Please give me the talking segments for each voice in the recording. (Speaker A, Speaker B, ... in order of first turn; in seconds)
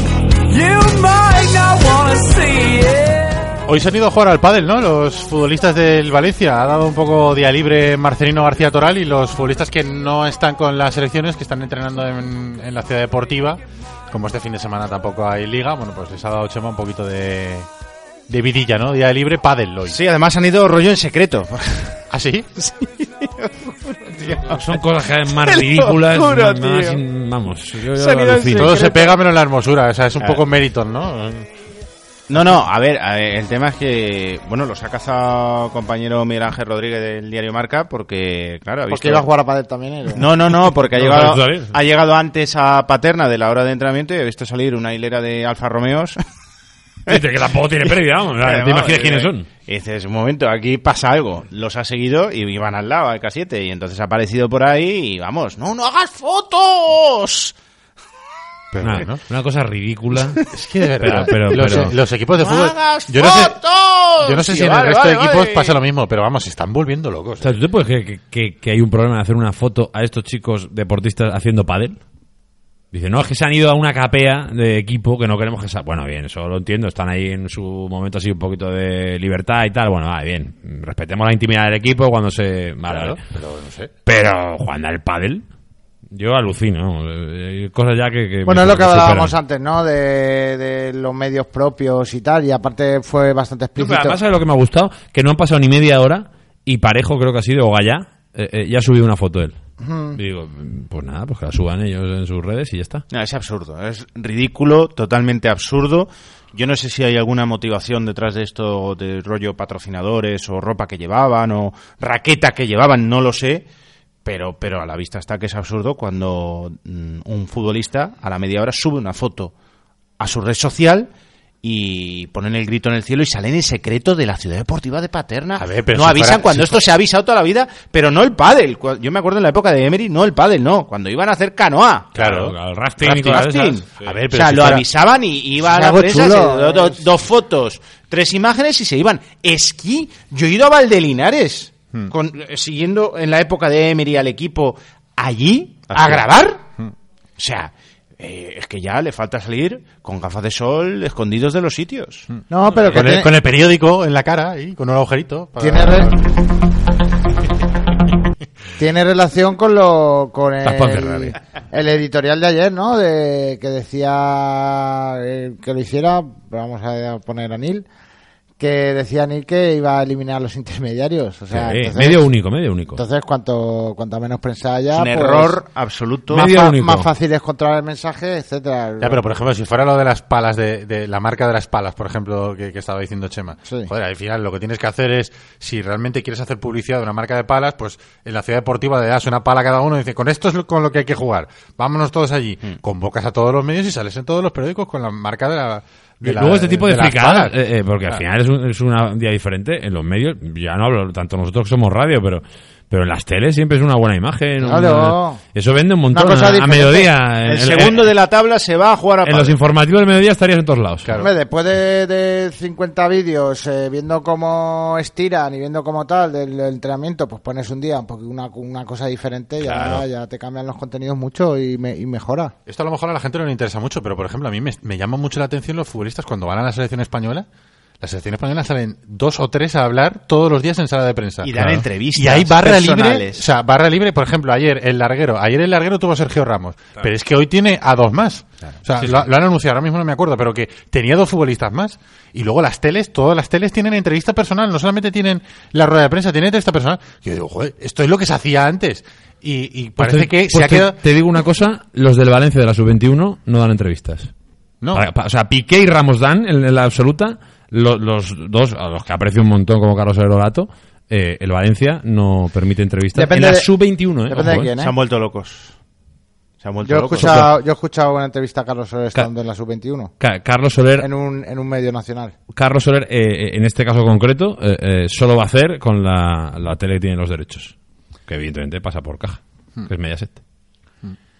Speaker A: 0.5-3.6
Speaker B: 3.7-17.7, 18.3-20.0, 22.1-22.6, 28.5-31.5, 58.7-59.2, 60.5-63.6, 64.2-67.5, 82.9-83.9, 125.6-126.9, 132.2-132.5, 134.3-134.8, 152.8-156.2, 179.0-197.5, 211.0-211.3, 222.7-227.4, 228.0-251.0, 254.8-255.1
Speaker C: 19.9-22.0, 22.6-24.6, 25.4-27.0, 27.8-29.2, 32.3-39.2, 40.1-46.2, 48.4-57.5, 61.5-61.8, 62.4-65.8, 103.1-113.7, 114.2-119.5, 120.2-121.1, 121.6-132.2, 133.0-146.6, 147.4-152.3, 174.9-176.4, 207.4-209.6, 231.4-233.4, 264.7-265.8, 266.6-267.4
Speaker D: 24.2-28.8, 40.9-41.7, 47.1-49.5, 58.8-60.4, 61.0-61.9, 67.4-72.0, 72.9-83.2, 84.0-85.5, 86.1-89.3, 93.8-99.5, 100.1-103.0, 132.2-134.8, 160.6-161.3, 171.5-173.0, 176.3-177.1, 196.2-208.1, 209.2-211.1, 219.6-220.0, 250.0-254.3, 254.9-264.7, 270.2-271.1, 272.5-277.7, 278.3-280.4
Speaker E: 38.9-40.3, 88.4-94.2, 99.8-100.2, 135.6-137.1, 152.5-153.3, 155.6-156.1, 158.8-167.9, 168.6-172.3, 172.9-175.6, 176.3-179.2, 204.6-205.4, 206.1-207.1, 211.2-222.5, 263.1-263.7, 264.3-264.9, 266.8-270.1, 271.0-272.3